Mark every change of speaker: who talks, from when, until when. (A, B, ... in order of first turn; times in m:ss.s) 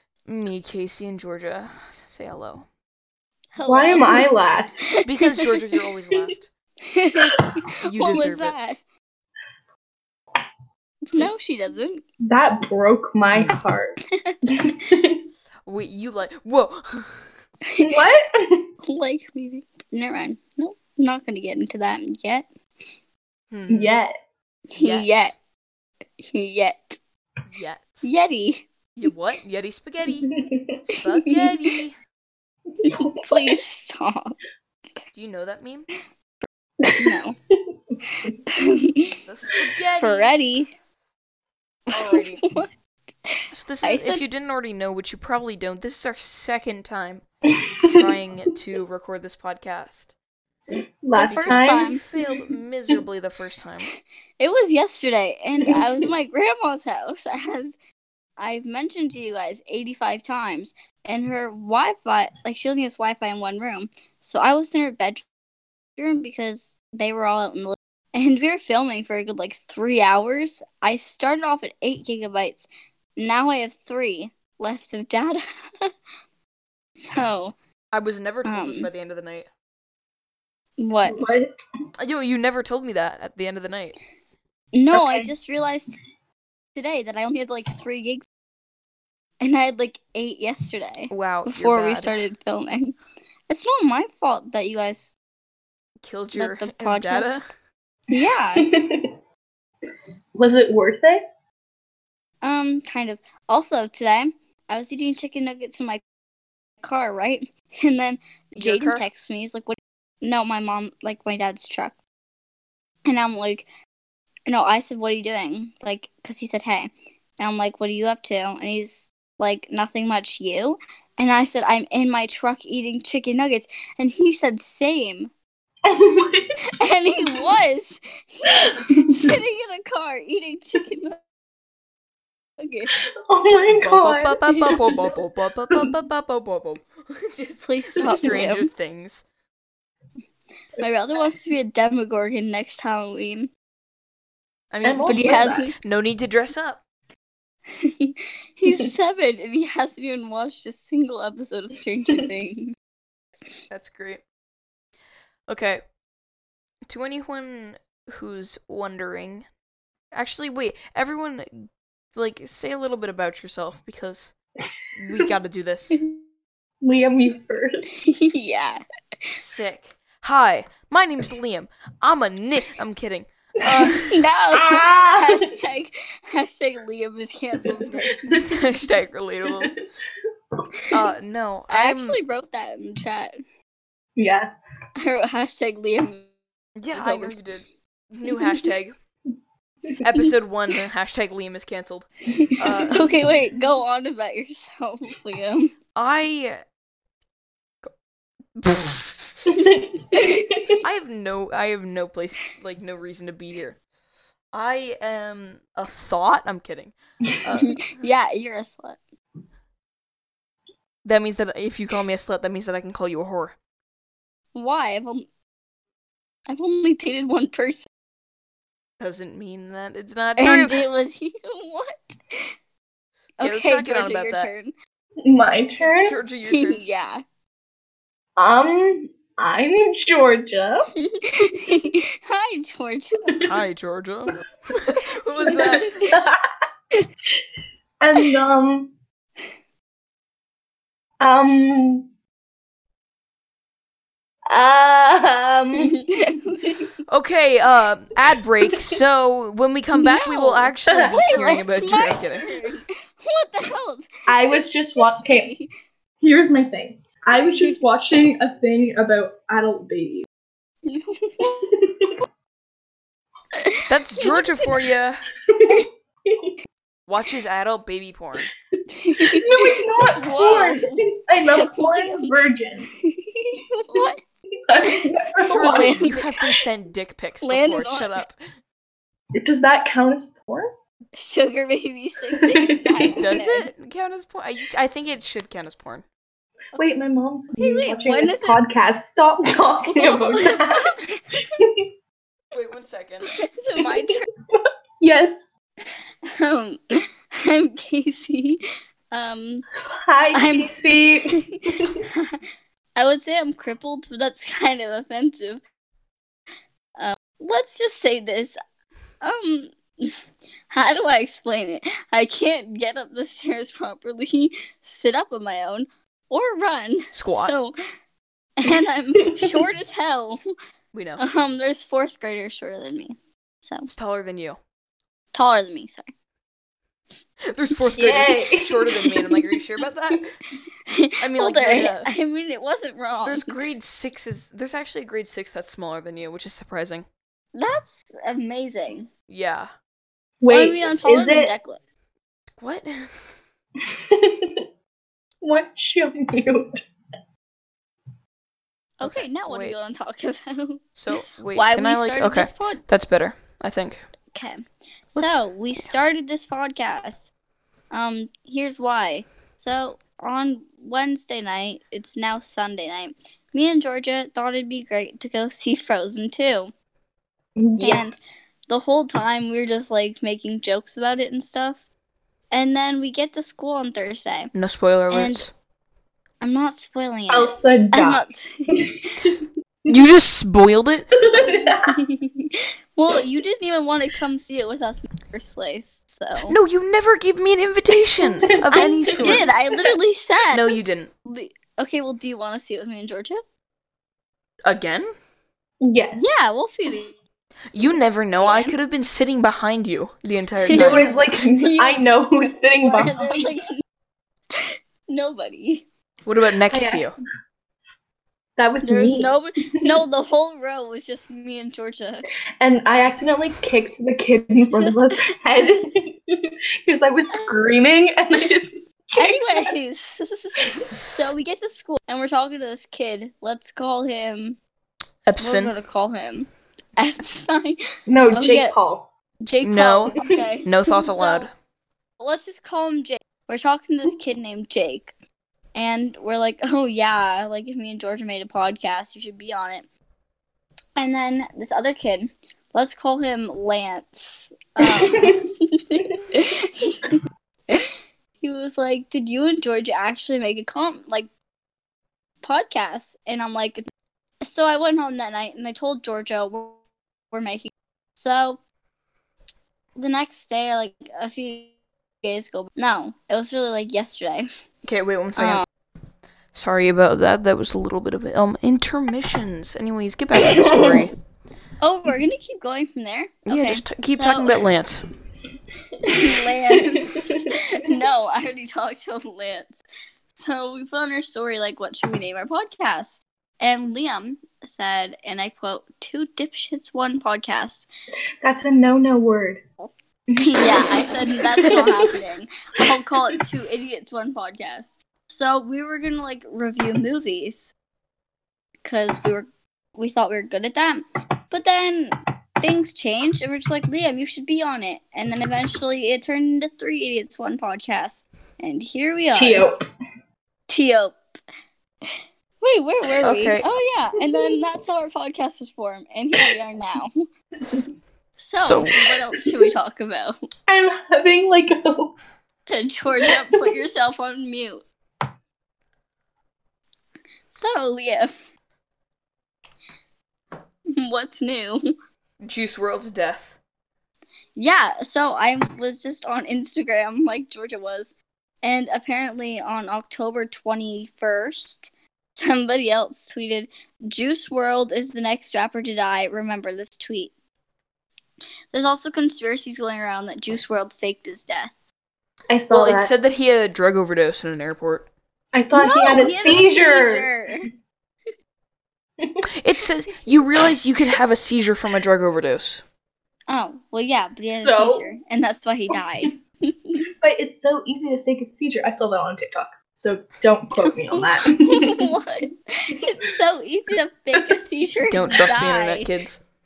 0:00.3-0:02.7 A
0:03.6-0:04.3 B
0:03.7-0:04.9 C
0:05.0-0:06.5 A
0:06.8-0:08.8 B
0:07.8-0:08.6 A
0:11.1-0:12.0 B
0:12.2-0:14.0 C
0:13.3-0:13.6 A
0:14.5-0:15.2 C
0:15.7-0:17.3 A
0:17.7-0:18.0 B
0:17.8-0:18.7 C
0:18.9-0:22.5 B
0:23.5-0:24.0 A
0:23.7-0:24.1 C
0:24.7-0:25.4 B
0:24.8-0:25.4 A
0:26.2-0:27.0 B
0:27.5-0:28.1 A
0:28.0-0:28.6 B
0:29.0-0:32.0 A
0:30.2-0:30.8 C
0:32.7-0:33.6 C
0:32.8-0:34.4 B
0:35.1-0:35.9 A
0:36.8-0:38.3 C
0:37.0-0:37.4 B
0:38.2-0:39.2 B
0:39.1-0:40.3 A
0:40.0-0:40.7 B
0:41.9-0:42.4 A
0:41.9-0:42.7 B
0:43.3-0:44.2 B
0:43.5-0:47.2 A
0:47.5-0:48.0 C
0:47.9-0:50.2 A
0:51.0-0:52.0 C
0:51.2-0:52.0 B
0:51.2-0:53.9 A
0:54.4-0:57.8 B
0:55.7-0:56.1 C
0:58.4-1:05.2 B
1:06.0-1:15.9 B
1:17.0-1:17.6 B
1:17.9-1:19.5 A
1:18.4-1:18.9 B
1:20.8-1:21.2 B
1:21.0-1:21.6 C
1:22.0-1:24.0 A
1:24.7-1:26.0 B
1:24.9-1:25.3 C
1:26.8-1:28.3 B
1:29.4-1:33.0 B
1:31.1-1:32.2 A
1:33.5-1:35.2 B
1:36.0-1:37.4 A
1:36.3-1:37.4 B
1:38.1-1:38.7 B
1:38.6-1:39.2 C
1:40.4-1:41.2 C
1:42.4-1:46.0 B
1:46.8-1:52.0 B
1:48.6-1:49.1 A
1:53.1-1:53.7 B
1:54.5-2:05.3 B
2:05.8-2:06.6 C
2:06.7-2:11.2 B
2:07.2-2:07.5 C
2:08.5-2:09.4 C
2:12.6-2:13.0 B
2:13.2-2:15.0 C
2:13.7-2:19.2 A
2:17.6-2:18.7 B
2:18.0-2:18.4 C
2:20.8-2:23.5 B
2:24.7-2:26.8 A
2:24.8-2:25.7 C
2:25.1-2:25.7 B
2:27.8-2:32.8 B
2:33.7-2:34.2 A
2:35.5-2:35.8 A
2:36.9-2:39.5 A
2:40.1-2:44.3 A
2:44.9-2:46.0 A
2:46.8-2:47.9 C
2:48.0-2:48.8 B
2:49.3-2:54.2 A
2:54.1-2:58.4 B
2:54.5-2:55.6 C
2:57.6-2:58.6 C
2:57.9-2:59.7 A
3:00.9-3:02.2 A
3:01.7-3:03.4 B
3:04.2-3:04.5 C
3:05.0-3:06.3 B
3:06.8-3:09.0 A
3:06.9-3:07.4 B
3:10.0-3:13.0 A
3:12.4-3:15.7 B
3:12.5-3:13.3 C
3:16.0-3:16.6 A
3:18.6-3:19.8 A
3:19.5-3:20.8 C
3:20.1-3:20.5 B
3:20.7-3:23.8 A
3:24.5-3:27.8 A
3:27.6-3:29.0 B
3:31.0-3:33.6 A
3:34.5-3:35.3 B
3:36.5-3:37.9 B
3:39.0-3:40.8 A
3:40.4-3:42.5 B
3:43.4-3:44.7 B
3:43.4-3:44.5 A
3:45.2-3:46.2 C
3:46.0-3:46.8 A
3:46.5-3:47.2 B
3:48.4-3:50.9 C
3:51.0-3:53.5 B
3:53.4-3:56.2 A
3:55.5-3:56.5 C
3:58.0-3:58.9 C
4:01.2-4:02.1 C
4:04.5-4:06.0 C
4:05.8-4:06.8 B
4:07.1-4:12.5 A
4:10.0-4:15.7 B
4:10.9-4:11.6 C
4:14.3-4:15.5 C
4:16.2-4:20.3 C
4:17.3-4:17.8 B
4:20.8-4:21.5 B
4:21.4-4:22.2 C
4:23.5-4:24.7 B
4:23.9-4:25.3 A
4:25.5-4:26.6 C
4:27.1-4:28.5 A
4:28.9-4:31.0 B
4:29.2-4:32.9 C
4:31.6-4:32.3 B
4:33.0-4:34.2 B
4:34.7-4:36.2 C
4:34.8-4:36.3 B
4:35.5-4:38.4 A
4:37.4-4:38.2 B
4:39.4-4:40.7 C
4:41.2-4:43.7 B
4:42.3-4:43.2 C
4:43.2-4:46.0 A
4:46.8-4:51.0 C
4:47.6-4:48.6 B
4:49.9-4:51.2 B
4:51.6-4:51.9 C
4:52.5-4:53.3 A
4:53.4-4:54.2 B
4:53.8-4:55.6 C
4:56.3-4:59.6 B
5:00.0-5:02.0 C
5:00.3-5:00.7 B
5:01.3-5:02.4 B
5:03.0-5:05.6 B
5:07.0-5:08.6 B
5:09.2-5:10.2 B
5:10.7-5:17.8 B
5:17.1-5:17.5 A
5:18.6-5:20.4 B
5:19.2-5:19.6 C
5:20.9-5:21.2 A
5:21.2-5:23.9 B
5:23.9-5:24.6 A
5:25.3-5:26.1 B
5:27.5-5:30.3 A
5:27.9-5:29.1 C
5:30.9-5:33.6 B
5:31.2-5:32.1 A
5:33.2-5:37.1 A
5:37.6-5:39.1 B
5:39.3-5:39.7 A
5:40.4-5:41.5 C
5:40.5-5:41.8 B
5:42.6-5:43.1 A
5:43.8-5:44.6 C
5:45.4-5:46.8 C
5:49.0-5:50.9 B
5:49.0-5:49.8 A
5:51.0-5:54.0 A
5:51.5-5:52.8 B
5:54.3-5:57.3 B
5:55.2-5:55.4 A
5:57.9-6:06.7 B
6:07.6-6:08.1 C
6:07.8-6:08.2 B
6:08.7-6:11.8 B
6:12.5-6:14.5 B
6:14.5-6:15.5 A
6:15.1-6:15.5 B
6:16.4-6:19.2 B
6:17.3-6:19.9 C
6:19.9-6:21.1 A
6:21.2-6:22.0 C
6:21.4-6:26.5 B
6:26.5-6:29.7 A
6:28.4-6:30.0 C
6:28.7-6:33.4 B
6:30.5-6:31.1 A
6:34.6-6:35.1 A
6:35.8-6:36.3 C
6:36.2-6:37.1 B
6:37.7-6:41.1 A
6:38.4-6:38.8 B
6:40.7-6:42.0 B
6:40.7-6:43.6 C
6:42.8-6:43.8 B
6:44.5-6:45.9 B
6:46.3-6:47.2 A
6:46.7-6:47.1 C
6:48.6-6:50.0 C
6:48.8-6:52.3 B
6:52.6-6:59.7 C
6:57.3-6:57.6 B
6:59.2-7:04.6 B
7:00.7-7:01.0 C
7:05.3-7:05.8 A
7:05.4-7:07.8 B
7:08.1-7:09.1 C
7:08.3-7:08.8 B
7:09.4-7:11.5 B
7:09.6-7:10.2 A
7:10.2-7:10.4 C
7:10.7-7:11.5 A
7:12.2-7:15.1 B
7:15.7-7:19.9 B
7:21.0-7:31.3 B
7:24.8-7:25.4 C
7:32.4-7:33.8 B
7:34.4-7:36.8 B
7:37.3-7:38.6 B
7:40.0-7:41.7 B
7:42.2-7:44.5 B
7:44.8-7:45.6 A
7:45.4-7:45.6 B
7:46.5-7:51.1 A
7:50.4-7:51.0 C
7:51.8-7:54.5 B
7:53.5-7:55.0 A
7:56.0-7:57.9 C
7:56.1-8:07.9 B
8:08.4-8:09.6 C
8:10.3-8:12.2 C
8:10.4-8:17.7 B
8:12.8-8:13.4 C
8:18.8-8:29.7 B
8:29.3-8:29.8 C
8:30.7-8:31.2 B
8:32.0-8:37.2 B
8:33.2-8:33.7 A
8:34.3-8:34.6 C
8:38.4-8:40.4 B
8:38.6-8:39.0 A
8:39.3-8:39.7 C
8:40.7-8:42.2 C
8:42.7-8:44.8 B
8:43.2-8:43.7 C
8:47.5-8:48.3 B
8:50.9-8:51.9 B
8:52.4-8:53.6 A
8:54.6-9:07.3 B
9:08.7-9:11.7 B
9:12.5-9:13.1 C
9:12.7-9:15.1 A
9:15.5-9:17.3 C
9:15.8-9:17.7 B
9:19.6-9:22.8 A
9:23.5-9:27.1 B
9:24.3-9:25.1 C
9:27.2-9:32.1 C
9:30.8-9:36.1 B
9:35.1-9:36.4 A